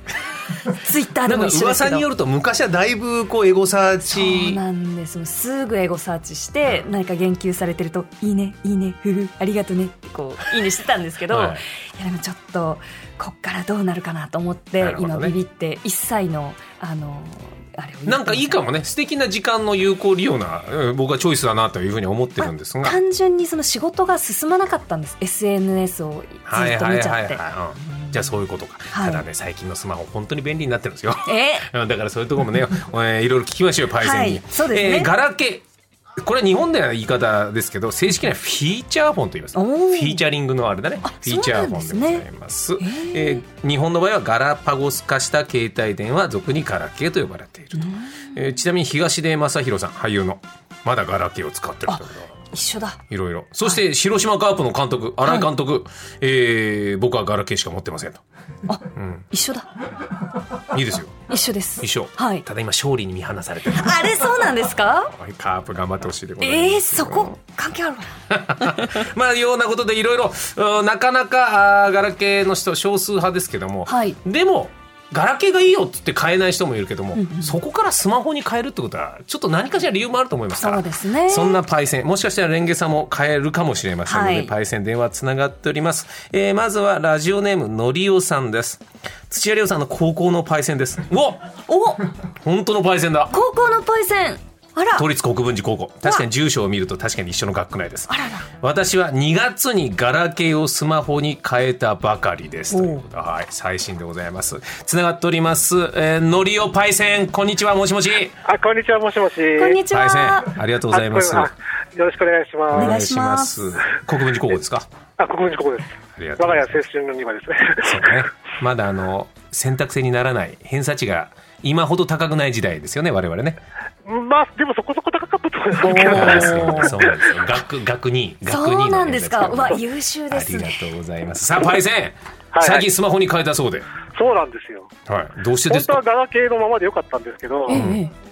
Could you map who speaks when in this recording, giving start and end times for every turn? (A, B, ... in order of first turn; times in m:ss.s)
0:00.7-0:02.1 A
0:01.2-0:04.6 B
0:04.1-0:18.6 A
0:11.3-0:11.6 B
0:14.8-0:15.4 B
0:18.1-0:23.0 B
0:22.4-0:28.1 A
0:26.5-0:35.6 B
0:28.9-0:29.2 A
0:31.2-0:31.7 A
0:34.0-0:35.1 A
0:36.2-0:52.3 B
0:39.6-0:40.2 A
0:41.0-0:42.3 A
0:42.8-0:43.4 A
0:47.8-0:48.3 A
0:51.9-0:53.0 A
0:53.1-0:58.2 B
0:58.7-0:59.7 A
0:58.9-0:59.3 B
1:00.7-1:04.4 B
1:01.3-1:02.4 A
1:03.7-1:05.1 A
1:05.1-1:07.3 B
1:06.4-1:08.8 A
1:08.3-1:31.5 B
1:13.9-1:14.2 A
1:17.2-1:17.6 A
1:20.6-1:21.6 A
1:24.1-1:24.5 A
1:31.7-1:32.1 A
1:32.4-1:33.3 B
1:33.3-1:35.1 A
1:35.0-1:48.4 B
1:38.1-1:38.5 A
1:42.7-1:43.0 A
1:48.5-1:49.8 C
1:49.5-1:50.5 A
1:49.9-1:51.5 B
1:50.9-1:53.0 C
1:52.7-1:54.9 B
1:52.8-1:53.8 A
1:55.2-1:58.2 C
1:56.2-1:56.8 B
1:57.8-2:03.6 B
2:04.0-2:07.4 C
2:05.8-2:06.9 A
2:05.9-2:13.9 B
2:08.5-2:10.9 A
2:12.5-2:12.9 C
2:14.2-2:14.9 C
2:15.1-2:16.0 B
2:15.7-2:17.9 C
2:17.7-2:18.1 A
2:17.7-2:18.0 B